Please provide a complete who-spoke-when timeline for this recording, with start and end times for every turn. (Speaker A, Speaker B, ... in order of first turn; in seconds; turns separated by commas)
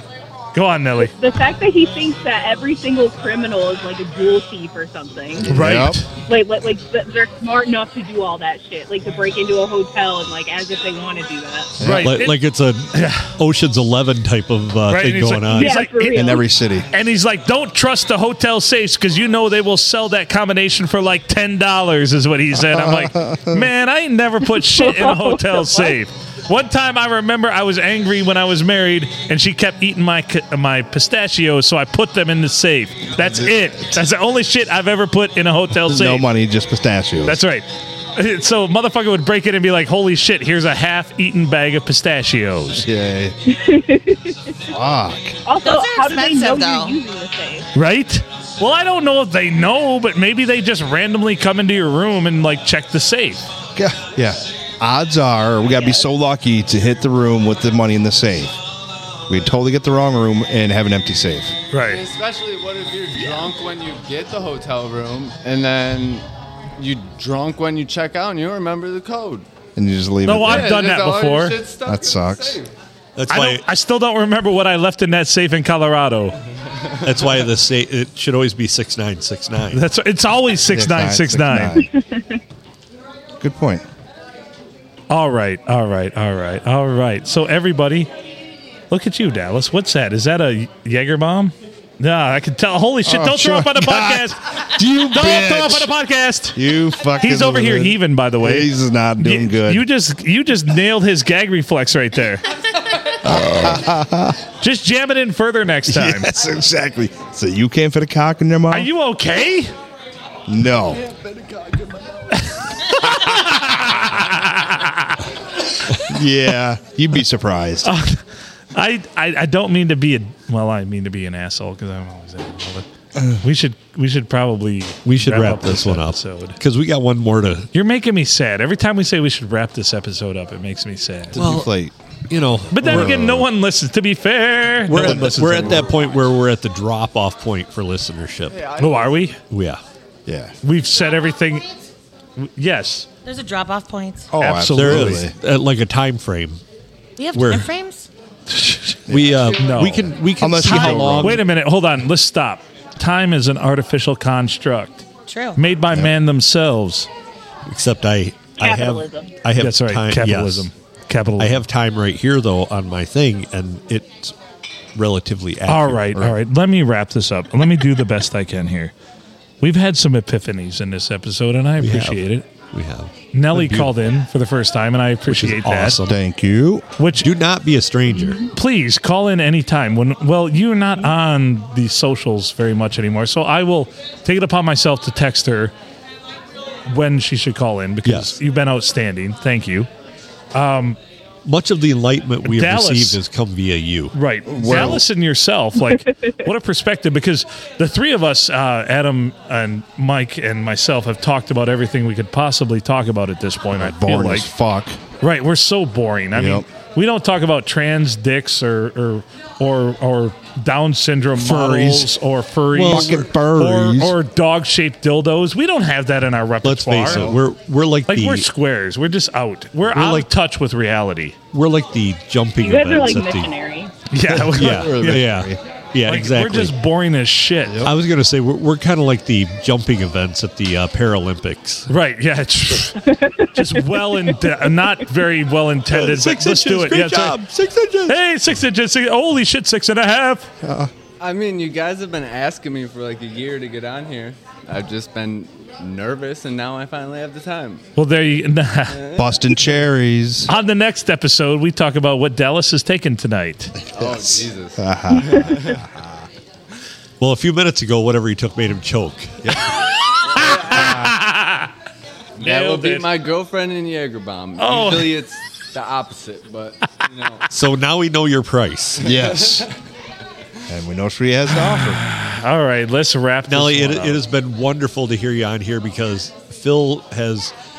Speaker A: 0.5-1.1, Speaker B: 1.0-5.5, Speaker C: 5.4-6.0, Speaker A: 5.5-6.0, Speaker B: 6.3-11.7, Speaker C: 11.8-12.1, Speaker A: 11.8-12.4, Speaker D: 12.0-15.8, Speaker A: 12.9-13.3, Speaker A: 14.9-36.3, Speaker B: 15.5-16.4, Speaker C: 16.1-16.9, Speaker C: 22.6-23.7, Speaker B: 24.8-26.0, Speaker C: 33.2-34.0, Speaker C: 35.8-37.4, Speaker A: 37.2-42.9, Speaker C: 42.8-43.3, Speaker B: 43.5-44.5, Speaker C: 44.7-45.4, Speaker B: 45.5-47.7, Speaker E: 45.6-47.0, Speaker A: 47.7-53.5, Speaker C: 53.8-58.5, Speaker C: 59.3-61.5, Speaker A: 61.7-62.0, Speaker F: 61.8-66.2, Speaker F: 66.8-69.5, Speaker C: 69.8-70.8, Speaker A: 70.2-71.6, Speaker F: 70.4-72.7, Speaker C: 71.9-72.6, Speaker D: 73.2-73.6, Speaker A: 73.3-76.4, Speaker D: 77.0-79.8, Speaker A: 79.7-81.8, Speaker C: 80.7-81.9, Speaker B: 82.0-82.2, Speaker C: 83.4-83.8, Speaker A: 85.1-88.1, Speaker A: 88.9-96.6, Speaker C: 93.0-95.9, Speaker C: 96.5-99.9, Speaker A: 97.2-102.5, Speaker C: 103.2-104.4, Speaker A: 104.6-106.3, Speaker C: 105.9-108.9, Speaker A: 108.7-109.7, Speaker C: 110.5-111.0, Speaker F: 111.0-112.1, Speaker A: 112.3-115.2, Speaker C: 116.1-117.9, Speaker A: 117.8-118.2, Speaker A: 118.8-122.8, Speaker A: 123.4-126.6, Speaker D: 125.0-127.7, Speaker A: 127.7-131.4, Speaker C: 131.3-131.9, Speaker D: 131.4-131.7, Speaker D: 132.3-133.4, Speaker A: 132.7-135.9, Speaker C: 132.8-133.5, Speaker D: 134.9-138.6, Speaker C: 134.9-135.9, Speaker F: 138.5-139.3, Speaker A: 138.8-139.4, Speaker D: 139.5-139.8, Speaker C: 140.3-140.5, Speaker A: 140.6-141.7, Speaker A: 142.4-143.1, Speaker E: 143.2-144.3, Speaker C: 144.3-145.3, Speaker A: 144.4-145.2, Speaker D: 144.7-146.6, Speaker E: 147.2-148.1, Speaker D: 147.3-147.7, Speaker A: 148.5-149.0, Speaker C: 149.1-151.4, Speaker D: 149.1-151.4, Speaker A: 149.6-150.1, Speaker A: 150.6-155.0, Speaker E: 155.3-155.6, Speaker A: 155.6-157.1, Speaker D: 157.7-160.7, Speaker B: 158.6-159.3, Speaker A: 159.6-161.6, Speaker D: 161.4-164.3, Speaker D: 165.0-166.2, Speaker A: 165.7-168.9, Speaker A: 169.6-172.4, Speaker D: 171.8-173.9, Speaker A: 173.3-176.0, Speaker D: 175.3-176.2, Speaker C: 176.1-176.8, Speaker A: 177.0-177.2, Speaker D: 177.2-178.5, Speaker A: 178.5-185.7, Speaker A: 186.9-189.9, Speaker D: 188.1-188.4, Speaker A: 190.5-191.0, Speaker D: 191.4-194.1, Speaker A: 192.4-193.2, Speaker A: 194.1-204.5, Speaker C: 194.5-195.0, Speaker C: 203.7-205.0, Speaker A: 205.2-217.3, Speaker C: 206.3-206.7, Speaker C: 211.4-212.1, Speaker D: 212.7-213.3, Speaker C: 212.9-214.2, Speaker D: 216.6-218.5, Speaker C: 217.0-217.4, Speaker A: 218.1-221.3, Speaker D: 219.9-220.3, Speaker D: 221.5-223.5, Speaker B: 222.6-223.9, Speaker A: 224.1-225.2, Speaker C: 224.2-225.6, Speaker D: 224.6-226.8, Speaker A: 226.1-227.8, Speaker C: 227.7-227.9, Speaker D: 227.8-231.9, Speaker A: 231.9-237.4, Speaker B: 233.2-233.5, Speaker D: 235.9-238.2, Speaker A: 238.1-240.5, Speaker C: 240.6-240.9, Speaker F: 241.2-247.8, Speaker A: 248.0-249.0, Speaker F: 248.9-249.3, Speaker C: 249.2-250.5, Speaker A: 250.5-253.7, Speaker C: 253.9-256.2, Speaker F: 253.9-255.8, Speaker D: 257.2-259.6, Speaker F: 260.3-260.9, Speaker A: 260.3-261.7, Speaker C: 260.7-261.1, Speaker F: 262.4-267.4, Speaker A: 262.4-263.1, Speaker A: 264.6-265.1, Speaker D: 267.5-269.1, Speaker C: 269.0-269.7, Speaker F: 269.1-269.7, Speaker C: 270.7-272.0, Speaker A: 271.6-274.2, Speaker D: 273.5-277.5